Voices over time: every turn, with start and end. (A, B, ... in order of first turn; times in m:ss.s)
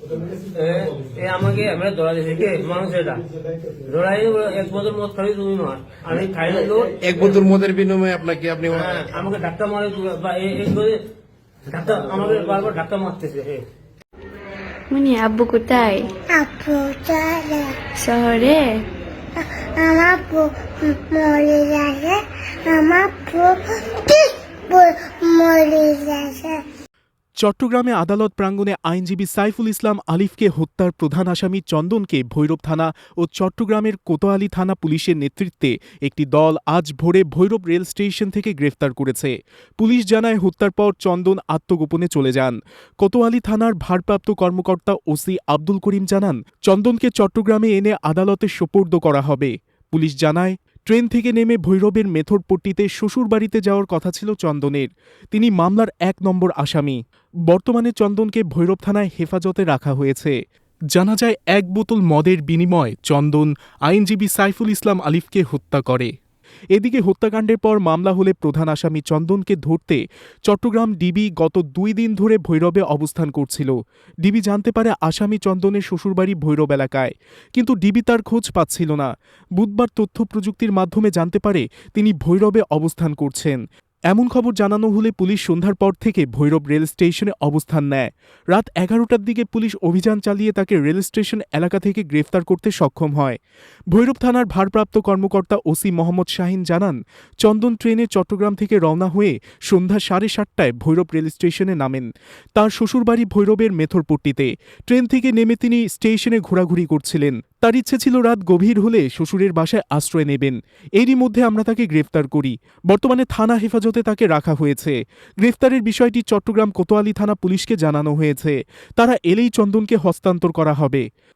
0:00.4-0:03.2 A
0:03.8-0:07.0 A
0:07.0-0:09.1 B
0:08.7-0:11.0 A
0:11.7-0:13.6 A
0:14.9-0:16.1 C
0:16.3-0:17.8 D
0:18.0-0:18.8 C
0:19.4-0:26.6 D
0:27.4-1:00.4 E
1:00.9-1:06.1 E
1:06.7-1:23.6 E
1:24.1-1:33.4 E
1:33.9-2:01.0 E